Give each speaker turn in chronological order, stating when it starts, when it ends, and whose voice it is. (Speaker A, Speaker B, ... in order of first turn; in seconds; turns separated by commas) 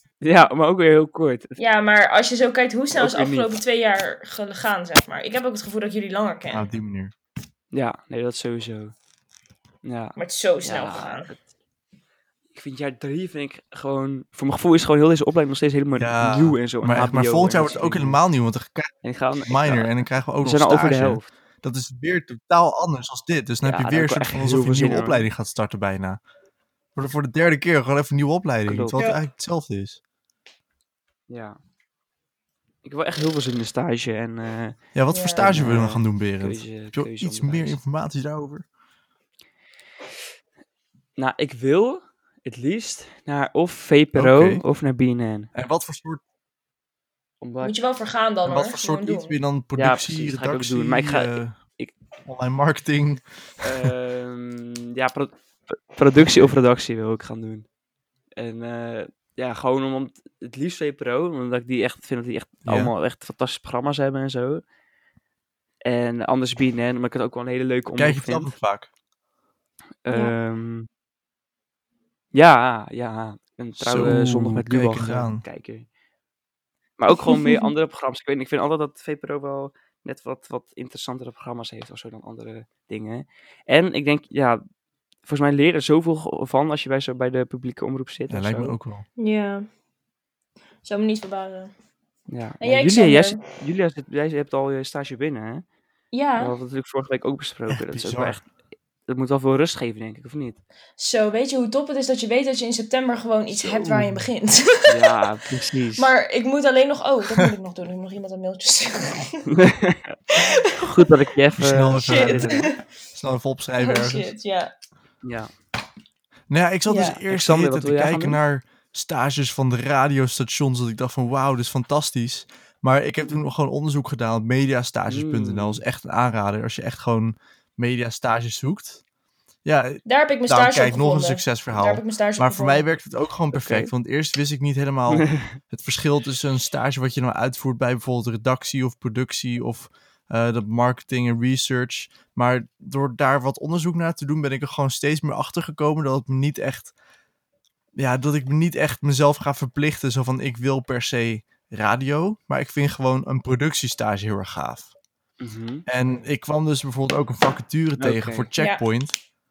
Speaker A: 0.2-1.6, Speaker B: 1.6-6.7, Speaker A: 2.9-3.6, Speaker C: 6.5-7.1, Speaker A: 7.7-8.9, Speaker A: 9.8-11.4, Speaker B: 10.2-11.3, Speaker A: 12.5-18.2, Speaker C: 16.0-26.2, Speaker A: 19.0-21.3, Speaker A: 23.6-25.3, Speaker C: 26.9-30.0, Speaker A: 28.7-29.0, Speaker B: 29.0-29.2, Speaker A: 31.3-31.6, Speaker A: 32.8-34.8, Speaker C: 35.0-38.6, Speaker B: 35.1-35.6, Speaker A: 35.4-37.8, Speaker A: 41.2-45.5, Speaker C: 44.1-44.6, Speaker C: 45.5-46.2, Speaker A: 47.4-47.7, Speaker B: 47.6-49.4, Speaker C: 48.5-51.6, Speaker A: 49.8-51.9, Speaker C: 52.3-53.9, Speaker A: 53.6-57.7, Speaker A: 58.4-64.6, Speaker C: 62.7-62.9, Speaker A: 65.8-68.5, Speaker C: 68.0-68.9, Speaker A: 70.1-70.9, Speaker A: 72.3-75.9, Speaker C: 73.8-75.4, Speaker A: 77.0-84.6, Speaker B: 77.1-77.7, Speaker A: 85.3-88.8, Speaker C: 88.3-89.0, Speaker B: 89.2-89.7, Speaker B: 90.8-91.7, Speaker A: 92.3-95.7, Speaker B: 92.6-93.4, Speaker B: 96.1-96.5, Speaker A: 96.4-98.5, Speaker C: 97.7-98.4, Speaker A: 99.1-100.6, Speaker B: 101.0-105.2, Speaker C: 103.6-104.3, Speaker A: 104.9-106.1, Speaker B: 106.0-109.5, Speaker A: 109.5-110.2, Speaker B: 110.3-111.1, Speaker A: 110.8-112.7, Speaker C: 111.6-114.3, Speaker B: 112.0-112.8, Speaker B: 113.8-114.7, Speaker A: 115.2-115.5, Speaker C: 116.5-129.0, Speaker B: 116.9-117.2, Speaker A: 117.3-118.4, Speaker A: 125.1-125.8, Speaker C: 129.7-146.9, Speaker B: 130.1-132.9, Speaker A: 133.5-133.9, Speaker A: 135.1-135.5, Speaker C: 148.0-154.9, Speaker A: 155.4-155.8, Speaker C: 155.9-159.2, Speaker A: 158.0-158.5, Speaker B: 158.6-158.8